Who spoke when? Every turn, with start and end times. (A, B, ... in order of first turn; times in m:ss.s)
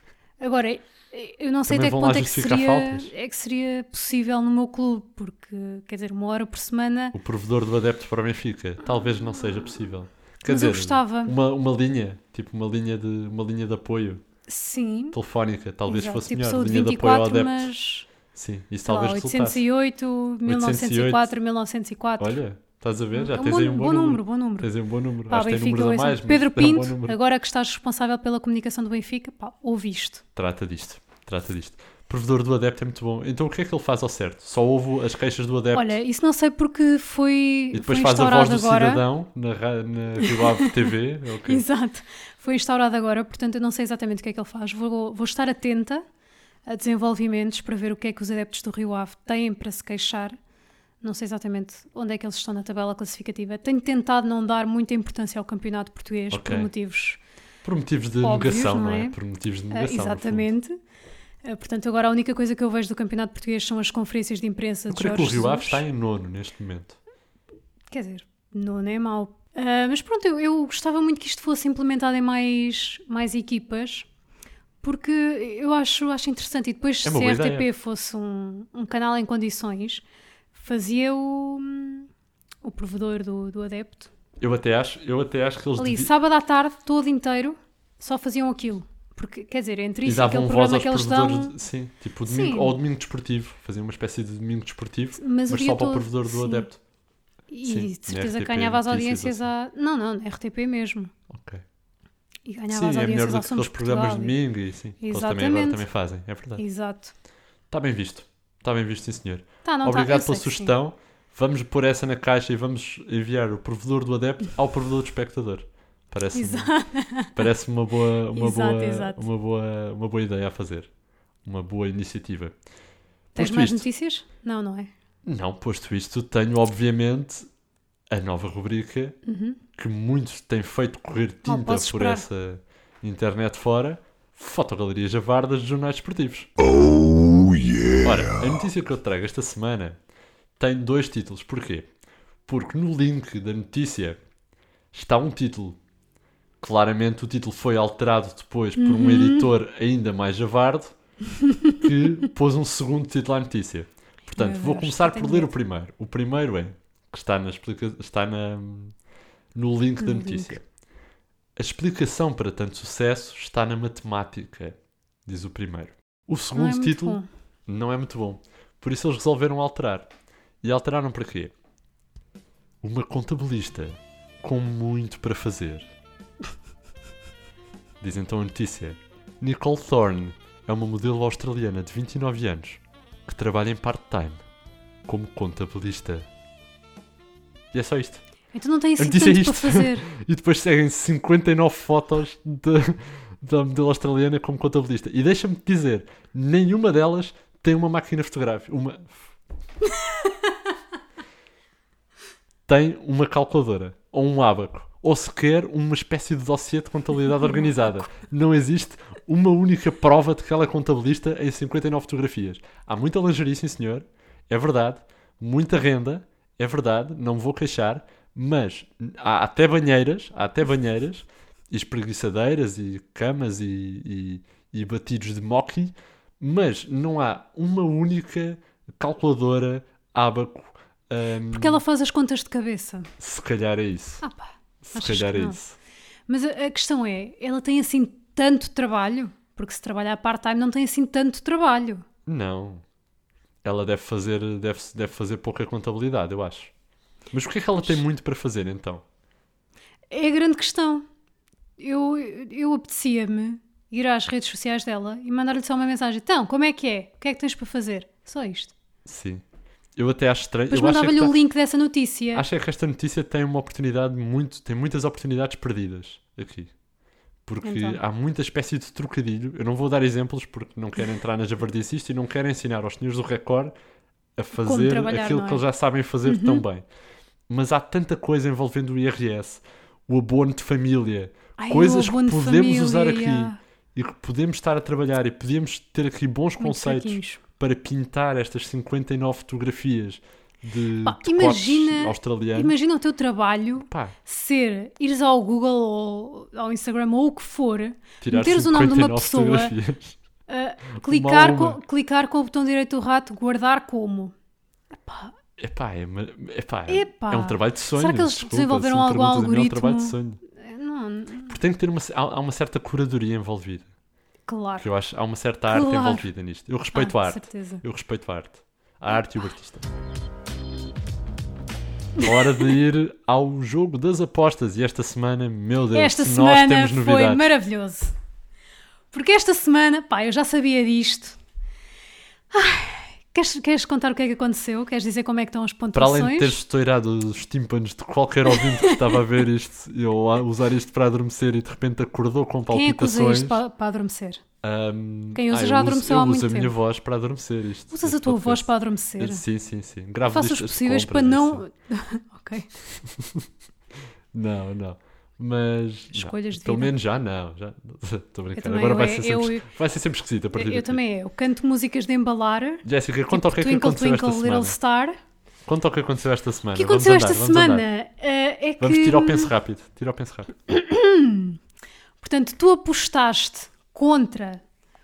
0:00.4-0:07.2 A
0:01.7-0:03.1 B
0:07.1-0:14.2 B
0:10.5-0:11.3 A
0:14.5-0:15.2 A
0:15.1-0:17.7 B
0:15.8-0:18.1 A
0:18.3-0:19.6 B
0:18.8-0:22.4 A
0:20.4-0:21.3 B
0:22.2-0:27.2 B
0:23.1-0:24.7 A
0:25.3-0:30.2 A
0:30.4-0:36.0 B
0:35.7-0:39.0 A
0:37.7-0:41.6 B
0:40.2-0:40.7 A
0:41.5-0:46.0 A
0:46.7-0:50.4 A
0:51.0-0:57.2 A
0:56.3-0:56.7 B
0:57.6-1:00.5 B
0:58.2-0:59.2 A
0:59.7-1:00.8 A
1:01.4-1:05.8 A
1:04.9-1:07.0 B
1:07.9-1:14.1 A
1:14.8-1:20.0 A
1:17.0-1:17.7 B
1:20.5-1:22.1 A
1:22.6-1:24.1 A
1:24.4-1:26.1 B
1:25.8-1:31.5 A
1:30.0-1:36.8 B
1:32.3-1:32.8 A
1:35.2-1:36.7 A
1:37.5-1:41.1 A
1:37.6-1:39.4 B
1:41.3-1:41.6 B
1:42.4-1:44.3 A
1:42.7-1:46.6 B
1:45.0-1:45.8 A
1:46.6-1:47.1 A
1:47.7-2:00.9 B
1:49.6-1:50.7 A
1:56.3-1:57.3 A
1:58.3-1:59.2 A
2:01.4-2:02.5 B
2:03.3-2:03.8 B
2:03.4-2:04.9 A
2:05.2-2:07.5 B
2:08.1-2:09.2 B
2:09.2-2:09.6 A
2:09.8-2:16.5 B
2:11.4-2:12.2 A
2:18.0-2:20.0 B
2:20.6-2:21.9 B
2:22.5-2:24.2 B
2:24.9-2:25.8 B
2:26.6-2:30.9 B
2:28.8-2:29.5 A
2:31.4-2:31.8 A
2:31.8-2:38.9 B
2:34.3-2:35.5 A
2:39.5-2:40.6 B
2:40.0-2:40.6 A
2:41.6-2:50.1 B
2:46.5-2:47.2 A
2:50.6-2:51.5 B
2:52.8-2:55.9 B
2:58.0-3:04.4 B
3:05.0-3:06.3 B
3:07.7-3:08.2 B
3:08.5-3:10.1 A
3:09.0-3:19.3 B
3:22.7-3:51.8 B
3:51.5-3:53.1 A
3:53.2-3:54.2 B
3:54.2-3:55.6 A
3:54.8-3:55.8 B
3:56.3-4:02.0 A
4:02.2-4:02.8 B
4:03.6-4:06.7 B
4:07.3-4:09.0 B
4:10.1-4:11.0 A
4:11.8-4:18.7 A
4:19.0-4:19.4 B
4:20.0-4:21.3 B
4:20.7-4:22.4 A
4:22.3-4:26.7 B
4:27.4-4:33.7 B
4:27.6-4:28.0 A
4:34.4-4:36.8 B
4:34.6-4:35.6 A
4:36.2-4:36.6 A
4:37.5-4:52.7 B
4:41.6-4:43.6 A
4:46.6-4:47.4 A
4:51.0-4:59.7 A
4:53.8-4:54.1 B
4:58.2-5:00.2 B
5:00.5-5:04.3 A
5:01.0-5:01.8 B
5:05.0-5:05.3 A
5:05.6-5:10.4 B
5:06.9-5:11.5 A
5:11.5-5:13.9 B
5:14.5-5:14.8 A
5:14.8-5:19.9 B
5:15.7-5:16.3 A
5:16.9-5:17.8 A
5:22.2-5:27.5 B
5:25.9-5:28.1 A
5:29.1-5:31.4 A
5:32.5-5:36.6 A
5:35.9-5:43.6 B
5:38.5-5:39.2 A
5:42.7-5:44.4 A
5:44.6-5:51.6 B
5:45.3-5:46.7 A
5:47.9-5:49.4 A
5:50.3-5:52.7 A
5:53.0-5:53.5 B
5:54.3-6:01.0 B
5:56.1-5:56.9 A
5:58.5-5:59.7 A
6:00.5-6:05.2 A
6:02.8-6:04.8 B
6:05.6-6:07.9 B
6:06.7-6:09.5 A
6:08.8-6:10.5 B
6:10.7-6:11.6 A
6:12.2-6:14.6 A